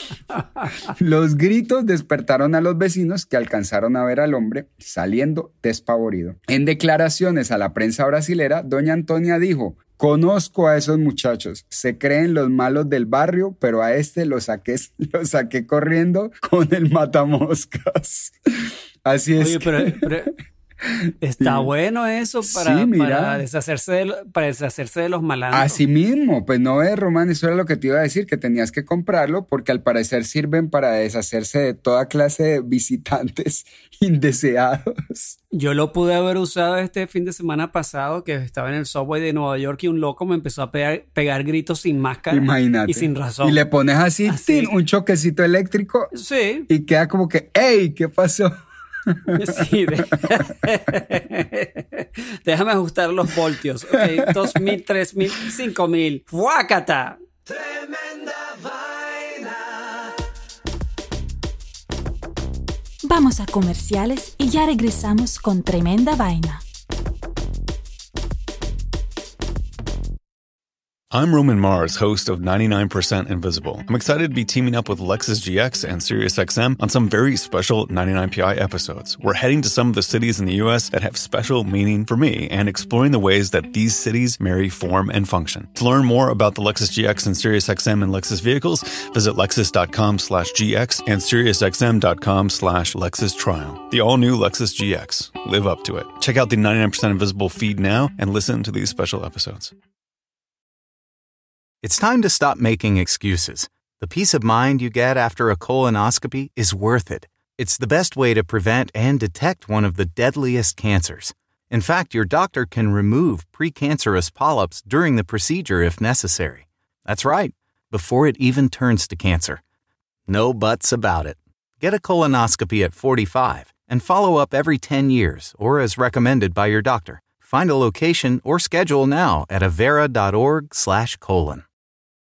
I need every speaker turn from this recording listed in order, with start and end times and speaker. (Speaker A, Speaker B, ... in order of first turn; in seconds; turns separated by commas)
Speaker A: 0.3-0.7, Speaker B: 0.8-20.1, Speaker A: 19.4-20.3, Speaker B: 20.9-21.7, Speaker A: 21.2-25.8, Speaker B: 22.4-23.4, Speaker B: 25.5-35.4, Speaker A: 35.5-43.6, Speaker B: 42.3-46.1, Speaker A: 44.2-44.7, Speaker A: 46.1-46.7, Speaker B: 46.7-48.5, Speaker B: 49.1-49.6, Speaker A: 49.3-57.2, Speaker B: 50.2-50.5, Speaker C: 63.0-66.6, Speaker D: 71.1-99.7, Speaker E: 101.8-119.6, Speaker E: 120.3-131.6